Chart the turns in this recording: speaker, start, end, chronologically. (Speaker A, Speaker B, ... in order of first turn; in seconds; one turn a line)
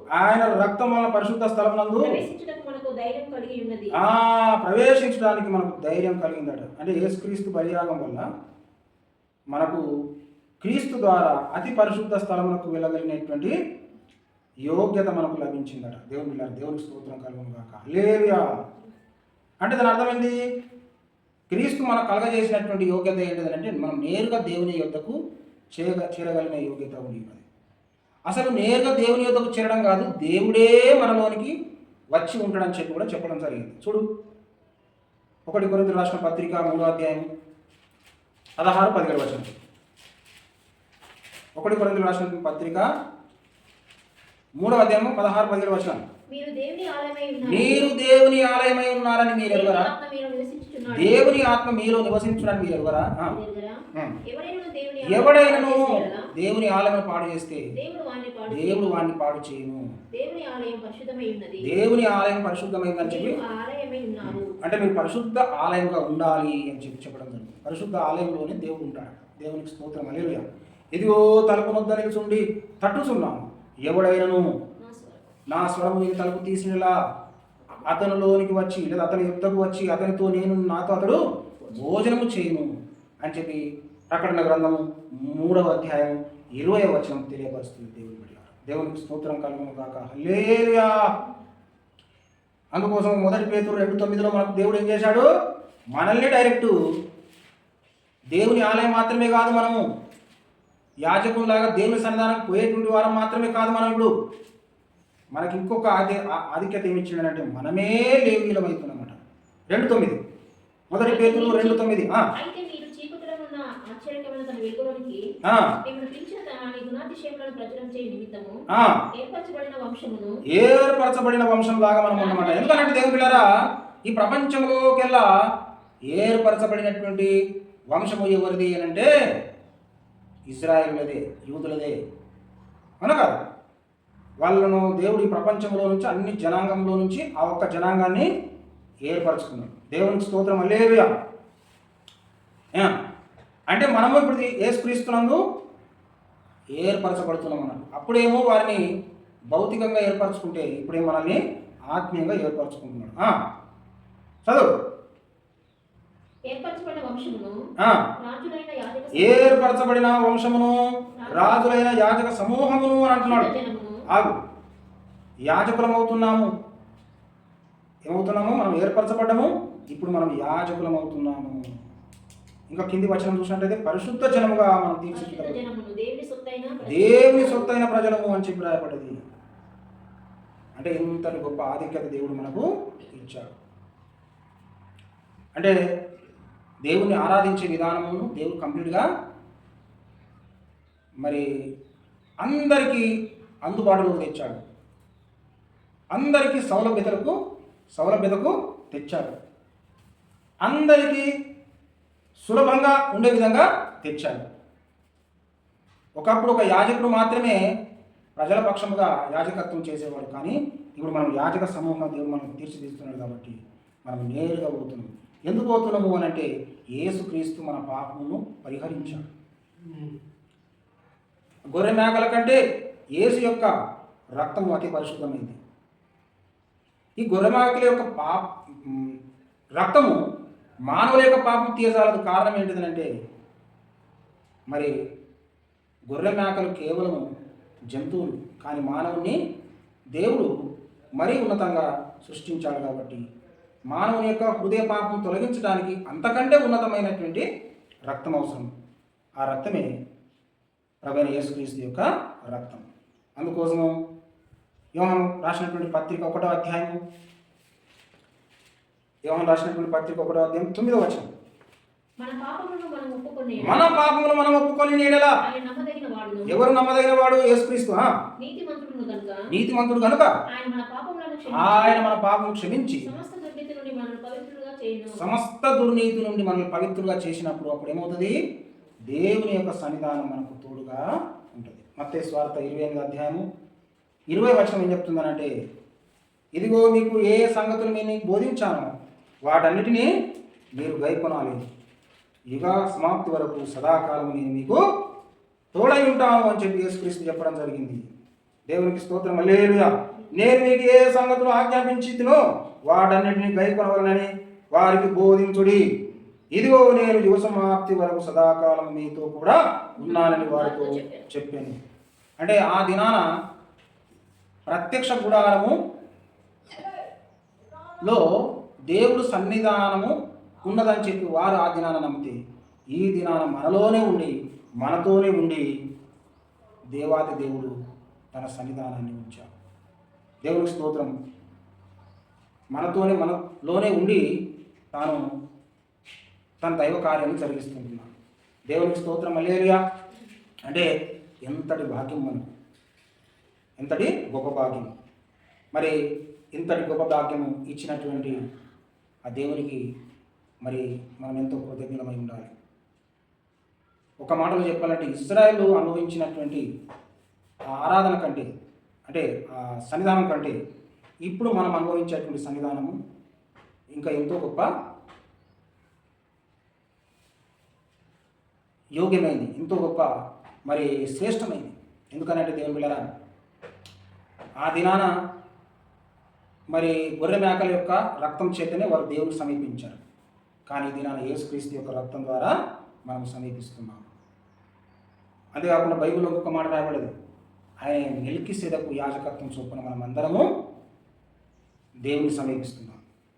Speaker A: 0.1-2.2
Speaker B: 2.0-3.9
Speaker A: 4.0-8.2
Speaker A: 9.5-9.8
Speaker A: 10.6-13.5
Speaker A: 14.7-18.4
Speaker A: 19.6-20.4
Speaker A: 21.5-25.1
Speaker A: 25.7-27.4
Speaker A: 28.3-31.5
Speaker A: 32.1-34.0
Speaker A: 35.5-37.2
Speaker A: 38.6-39.5
Speaker A: 41.6-42.9
Speaker A: 44.6-46.0
Speaker B: 46.3-47.9
Speaker A: 47.5-49.9
Speaker B: 49.5-51.3
Speaker A: 50.9-53.3
Speaker B: 53.2-56.3
Speaker A: 55.0-57.7
Speaker B: 57.7-59.0
Speaker A: 58.5-59.9
Speaker B: 60.1-61.7
Speaker A: 61.6-63.4
Speaker B: 63.0-64.5
Speaker A: 64.2-70.4
Speaker A: 70.9-74.5
Speaker B: 74.8-75.2
Speaker A: 75.5-76.9
Speaker A: 77.8-82.7
Speaker A: 83.2-91.1
Speaker A: 92.7-95.3
Speaker A: 95.9-96.7
Speaker A: 98.3-99.8
Speaker A: 101.0-104.1
Speaker A: 105.3-109.2
Speaker A: 109.7-110.2
Speaker A: 110.9-112.2
Speaker B: 111.0-111.8
Speaker B: 112.4-115.2
Speaker A: 115.4-115.7
Speaker B: 115.8-120.4
Speaker A: 118.7-119.0
Speaker A: 120.5-125.3
Speaker B: 122.1-123.6
Speaker A: 126.1-127.3
Speaker A: 127.9-129.1
Speaker A: 130.5-131.9
Speaker A: 133.0-133.4
Speaker A: 134.4-138.3
Speaker A: 139.1-141.1
Speaker A: 143.7-145.4
Speaker A: 146.8-148.8
Speaker A: 149.5-151.4
Speaker A: 151.9-153.3
Speaker B: 156.5-157.6
Speaker A: 157.8-158.1
Speaker B: 158.2-159.9
Speaker A: 159.2-160.8
Speaker B: 161.2-161.8
Speaker A: 161.3-163.5
Speaker B: 163.2-164.0
Speaker A: 164.1-164.3
Speaker A: 165.5-166.5
Speaker A: 168.1-171.6
Speaker A: 172.7-175.6
Speaker B: 175.1-177.8
Speaker A: 176.8-179.1
Speaker A: 180.8-183.5
Speaker A: 186.8-189.0
Speaker A: 192.4-193.1
Speaker A: 193.7-194.6
Speaker A: 196.1-197.3
Speaker A: 197.9-199.3
Speaker A: 200.6-201.3
Speaker A: 202.4-204.4
Speaker A: 206.2-207.6
Speaker A: 208.4-219.3
Speaker A: 221.7-222.6
Speaker A: 223.2-223.7
Speaker A: 224.4-225.6
Speaker A: 227.2-229.2
Speaker A: 229.8-230.2
Speaker A: 230.9-233.1
Speaker A: 236.1-237.2
Speaker A: 237.9-239.4
Speaker A: 240.1-240.5
Speaker A: 241.2-243.2
Speaker A: 243.9-247.4
Speaker A: 248.1-248.7
Speaker A: 249.4-249.9
Speaker A: 251.0-252.8
Speaker A: 253.4-253.9
Speaker A: 254.9-257.0
Speaker A: 259.2-261.3
Speaker B: 262.2-263.9
Speaker A: 263.6-265.4
Speaker B: 265.4-266.6
Speaker A: 266.5-268.1
Speaker B: 268.4-269.5
Speaker A: 269.5-270.3
Speaker B: 270.5-272.1
Speaker A: 271.5-273.1
Speaker B: 273.0-275.2
Speaker A: 275.1-278.4
Speaker A: 279.1-281.0
Speaker A: 281.5-283.4
Speaker A: 284.3-285.5
Speaker A: 286.6-288.9
Speaker A: 289.4-290.1
Speaker A: 290.8-291.6
Speaker A: 292.5-294.8
Speaker A: 295.7-298.0
Speaker A: 298.7-305.8
Speaker A: 306.5-311.8
Speaker B: 310.0-311.3
Speaker A: 312.4-313.2
Speaker A: 314.7-315.8
Speaker A: 318.0-318.3
Speaker A: 318.9-322.4
Speaker A: 322.9-325.7
Speaker A: 326.9-327.7
Speaker A: 328.3-329.5
Speaker A: 330.4-331.1
Speaker A: 332.7-334.2
Speaker A: 334.9-335.2
Speaker A: 336.6-338.1
Speaker A: 338.7-339.8
Speaker A: 341.5-342.4
Speaker A: 343.8-344.9
Speaker A: 346.5-348.4
Speaker A: 349.3-349.8
Speaker A: 350.6-352.5
Speaker A: 354.2-356.6
Speaker A: 357.7-358.5
Speaker A: 359.1-360.6
Speaker A: 361.2-362.9
Speaker A: 363.9-364.6
Speaker A: 369.0-370.1
Speaker A: 370.7-373.0
Speaker A: 374.6-375.1
Speaker A: 376.7-380.0
Speaker A: 380.7-382.5
Speaker A: 383.1-384.1
Speaker A: 385.5-387.1
Speaker A: 387.8-390.5
Speaker A: 392.1-393.0